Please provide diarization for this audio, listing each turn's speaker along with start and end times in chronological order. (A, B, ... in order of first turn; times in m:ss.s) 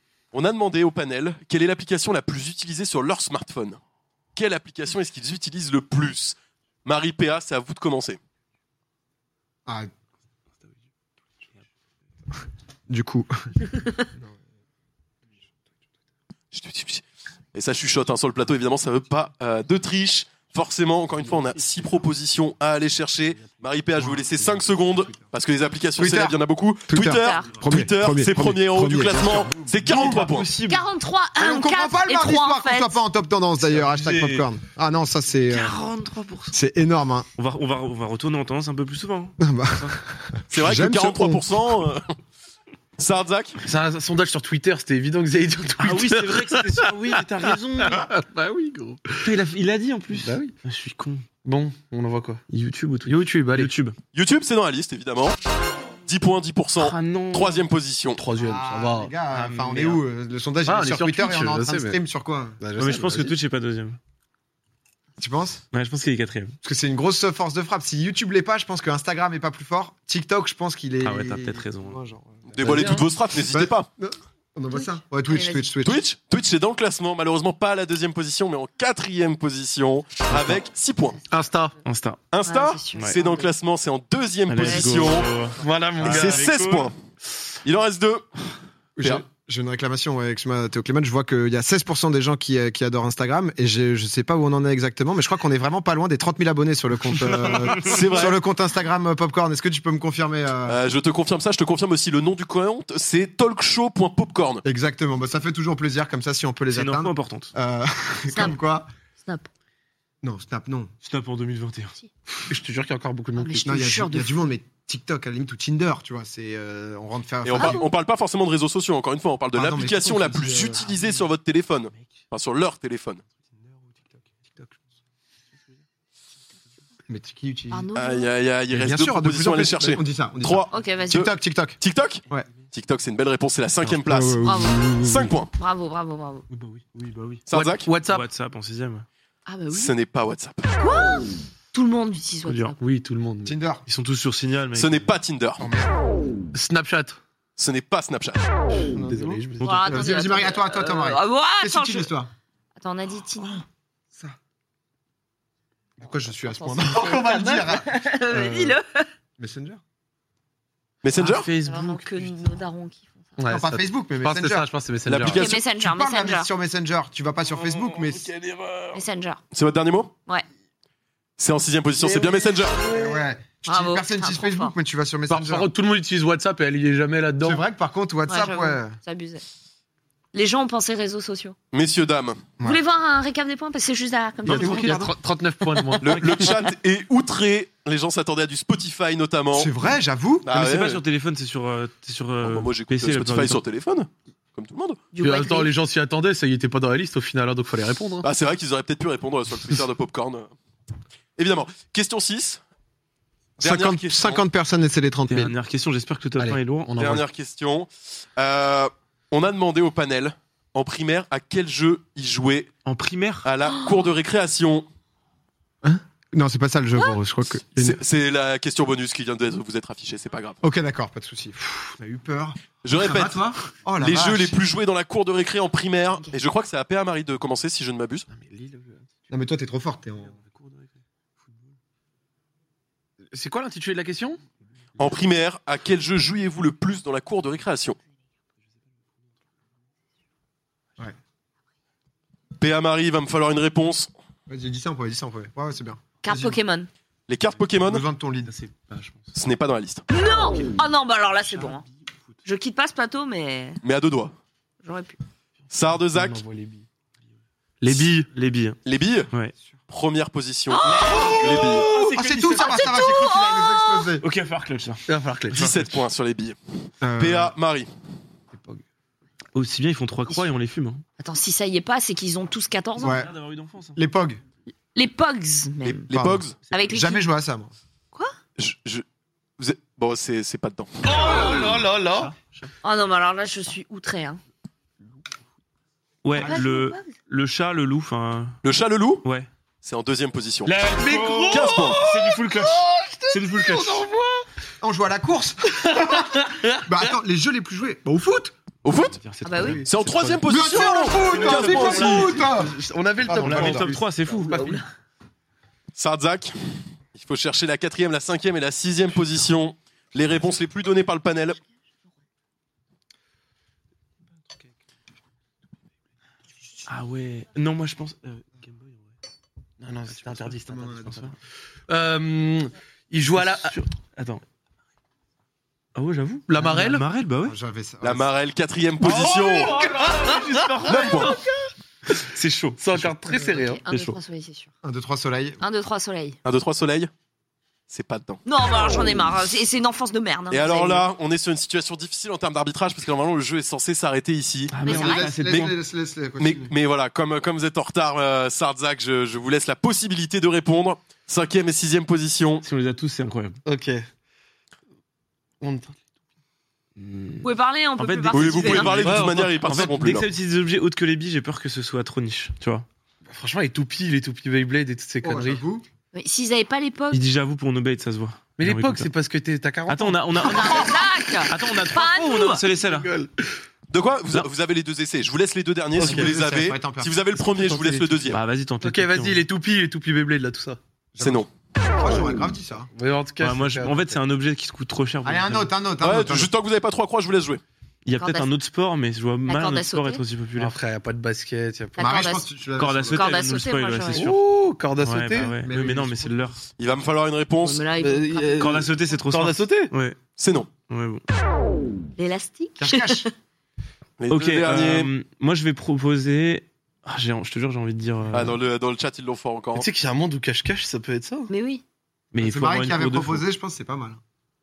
0:00.3-0:03.8 A
0:04.4-0:08.2 A
0:12.9-0:13.4 B
0:16.5-0:17.0 A
0:17.5-0:30.5 A
0:24.0-0:24.2 B
0:26.0-0:26.4 B
0:26.9-0:30.2 B
0:27.2-0:27.5 C
0:29.8-0:30.8 D
0:30.7-0:33.0 C
0:31.4-0:35.8 B
0:33.8-0:34.4 D
0:35.5-0:36.6 D
0:36.5-0:37.3 B
0:37.4-0:39.9 D
0:39.4-0:41.5 B
0:40.5-0:42.1 A
0:43.0-0:43.6 A
0:43.6-0:49.3 E
0:45.8-0:48.0 D
0:49.2-0:51.3 D
0:50.1-0:50.6 E
0:51.4-0:52.4 E
0:52.5-0:54.0 D
0:53.1-0:53.7 E
0:54.1-0:55.4 A
0:56.1-0:58.2 A
0:56.8-0:57.6 D
0:58.2-1:00.0 E
0:58.4-1:02.6 B
1:00.6-1:02.0 E
1:02.6-1:03.4 E
1:02.8-1:04.0 D
1:05.2-1:05.6 B
1:05.7-1:06.6 D
1:06.6-1:12.9 B
1:11.0-1:12.0 D
1:12.6-1:13.9 A
1:12.6-1:13.0 E
1:13.4-1:16.0 B
1:14.7-1:15.7 C
1:15.8-1:21.2 A
1:20.3-1:20.6 D
1:21.3-1:21.8 E
1:21.8-1:22.2 D
1:22.3-1:25.3 A
1:22.4-1:23.5 C
1:24.5-1:26.9 D
1:24.6-1:25.1 C
1:25.6-1:26.5 E
1:26.0-1:26.9 A
1:27.6-1:28.3 A
1:29.0-1:40.8 B
1:37.2-1:38.1 D
1:37.7-1:38.4 A
1:40.7-1:44.6 A
1:44.6-1:48.9 B
1:46.7-1:47.5 D
1:48.3-1:48.6 C
1:49.2-1:49.5 C
1:50.2-1:50.9 B
1:51.0-1:52.0 D
1:52.5-1:53.8 E
1:53.4-1:54.5 C
1:53.6-1:57.9 B
1:57.4-2:03.2 A
1:57.6-1:57.8 C
1:59.5-2:01.0 B
2:03.9-2:04.7 B
2:07.1-2:07.9 B
2:07.7-2:08.3 C
2:08.0-2:14.4 A
2:08.7-2:12.5 B
2:10.7-2:11.2 C
2:13.9-2:15.4 B
2:14.4-2:14.8 C
2:15.0-2:15.5 A
2:15.6-2:16.4 C
2:16.5-2:17.5 D
2:17.5-2:17.9 A
2:17.5-2:18.3 E
2:18.0-2:19.1 D
2:19.5-2:19.9 C
2:19.7-2:20.7 A
2:20.8-2:22.8 C
2:22.4-2:22.8 D
2:22.8-2:23.6 E
2:23.4-2:23.8 B
2:23.9-2:25.1 D
2:24.8-2:25.6 A
2:25.6-2:26.0 B
2:26.5-2:27.2 E
2:27.6-2:28.4 A
2:28.8-2:29.7 E
2:28.9-2:32.3 B
2:29.6-2:30.0 D
2:29.6-2:32.1 C
2:32.8-2:33.6 C
2:36.0-2:38.8 B
2:36.5-2:39.1 C
2:39.4-2:39.8 B
2:41.0-2:41.5 A
2:41.2-2:42.3 D
2:41.6-2:43.3 C
2:43.4-2:45.4 E
2:43.5-2:44.7 B
2:45.1-2:45.6 A
2:45.3-2:46.5 C
2:45.4-2:48.3 B
2:47.5-2:49.0 D
2:48.9-2:49.4 C
2:49.5-2:50.1 A
2:51.4-2:52.8 A
2:52.0-2:53.2 E
2:52.8-2:55.7 B
2:53.7-2:54.8 C
2:55.3-2:57.6 E
2:57.4-2:59.0 B
2:58.3-2:59.4 C
3:00.3-3:01.6 C
3:01.7-3:02.4 A
3:02.6-3:04.9 C
3:04.5-3:06.5 E
3:04.5-3:05.1 B
3:04.5-3:05.1 D
3:06.0-3:09.7 A
3:06.1-3:06.5 D
3:09.5-3:10.5 B
3:10.4-3:11.0 A
3:10.5-3:13.6 D
3:12.4-3:15.0 A
3:15.1-3:15.7 C
3:15.2-3:18.3 E
3:18.2-3:20.5 A
3:21.4-3:22.6 A
3:23.6-3:25.6 B
3:23.6-3:24.4 A
3:25.3-3:26.9 D
3:26.8-3:27.2 E
3:27.0-3:32.7 A
3:32.9-3:33.5 D
3:33.4-3:34.9 A
3:35.8-3:38.0 B
3:37.8-3:40.6 A
3:40.6-3:44.6 B
3:42.8-3:43.4 A
3:44.0-3:48.3 A
3:48.3-3:49.1 E
3:49.3-3:50.4 B
3:53.3-3:54.4 E
3:55.0-3:58.0 A
4:02.6-4:04.1 A
4:04.5-4:06.6 B
4:06.2-4:06.9 C
4:07.3-4:08.0 A
4:07.9-4:08.5 B
4:08.5-4:09.3 D
4:09.4-4:10.0 A
4:10.1-4:11.8 C
4:12.4-4:13.8 C
4:13.8-4:14.3 A
4:14.8-4:15.2 C
4:15.7-4:16.4 A
4:16.1-4:16.9 E
4:17.8-4:18.3 E
4:18.3-4:18.8 D
4:18.8-4:19.3 A
4:19.9-4:21.9 A
4:20.7-4:21.6 C
4:20.9-4:24.2 B
4:21.2-4:23.1 D
4:22.5-4:24.1 C
4:24.2-4:25.0 D
4:25.1-4:26.0 E
4:25.5-4:26.6 A
4:27.0-4:27.5 B
4:27.2-4:27.9 A
4:28.5-4:28.8 B
4:29.5-4:31.0 D
4:31.2-4:33.3 C
4:33.0-4:33.3 B
4:33.0-4:34.0 D
4:34.0-4:34.4 B
4:35.0-4:36.1 C
4:36.0-4:36.6 A
4:36.1-4:37.7 B
4:36.7-4:37.2 C
4:38.6-4:39.0 A
4:39.6-4:40.9 A
4:41.0-4:42.3 E
4:41.3-4:42.5 D
4:42.8-4:44.4 C
4:46.2-4:48.6 D
4:46.3-4:47.1 C
4:48.6-4:49.2 A
4:49.2-4:49.5 D
4:49.8-4:50.7 A
4:50.7-4:54.0 D
4:50.8-4:54.5 E
4:51.5-4:52.0 A
4:54.8-4:58.5 B
4:55.8-4:57.2 E
4:58.8-4:59.2 A
4:59.1-5:00.5 D
4:59.4-4:59.8 C
4:59.9-5:02.4 A
5:00.5-5:04.0 B
5:01.2-5:04.8 E
5:01.4-5:02.2 D
5:03.4-5:04.7 D
5:04.5-5:04.8 C
5:06.0-5:06.5 A
5:07.2-5:11.6 A
5:16.9-5:19.0 D
5:19.8-5:21.3 E
5:20.5-5:21.3 B
5:21.9-5:23.8 E
5:23.4-5:24.4 D
5:26.0-5:27.6 D
5:26.5-5:27.1 E
5:27.4-5:28.3 B
5:28.0-5:29.8 A
5:29.0-5:31.4 D
5:29.0-5:31.7 E
5:30.9-5:31.4 A
5:32.2-5:33.2 D
5:32.8-5:33.8 E
5:33.3-5:34.7 C
5:33.9-5:34.2 D
5:34.8-5:35.6 B
5:35.6-5:36.4 C
5:36.4-5:37.1 A
5:37.9-5:38.4 A
5:38.5-5:41.1 C
5:40.5-5:45.7 A
5:44.7-5:45.6 D
5:44.8-5:45.3 C
5:44.8-5:46.7 B
5:46.4-5:52.6 A
5:52.6-5:53.6 D
5:53.6-5:54.1 E
5:55.6-5:56.0 E
5:57.0-6:02.9 D
5:57.4-5:59.1 C
5:58.3-6:00.3 A
5:59.0-6:00.0 E
6:03.3-6:05.6 E
6:05.2-6:05.8 B
6:06.1-6:07.2 C
6:07.1-6:09.1 D
6:08.6-6:10.9 E
6:09.9-6:13.1 D
6:10.4-6:12.6 C
6:12.8-6:13.5 E
6:13.9-6:18.4 A
6:16.0-6:16.3 E
6:16.0-6:17.2 B
6:17.6-6:18.2 E
6:18.3-6:19.4 D
6:18.8-6:20.8 E
6:21.2-6:22.9 B
6:21.2-6:21.5 A
6:22.9-6:24.2 E
6:23.4-6:25.7 D
6:25.2-6:26.5 B
6:26.0-6:27.6 A
6:28.0-6:30.8 D
6:28.2-6:28.5 C
6:29.5-6:30.2 C
6:30.6-6:32.0 E
6:32.0-6:32.5 C
6:32.0-6:33.3 B
6:32.8-6:34.4 D
6:33.1-6:34.3 C
6:34.1-6:35.6 E
6:35.0-6:36.6 D
6:35.4-6:36.3 B
6:36.8-6:37.8 A
6:37.6-6:38.8 C
6:38.0-6:39.9 E
6:38.6-6:40.2 D
6:40.4-6:40.7 A
6:40.9-6:41.2 D
6:42.2-6:43.3 C
6:42.8-6:43.3 B
6:44.2-6:45.1 A
6:44.3-6:48.6 D
6:48.3-6:49.9 A
6:49.8-6:51.5 E
6:51.5-6:51.8 C
6:52.3-6:53.4 D
6:52.4-6:54.2 B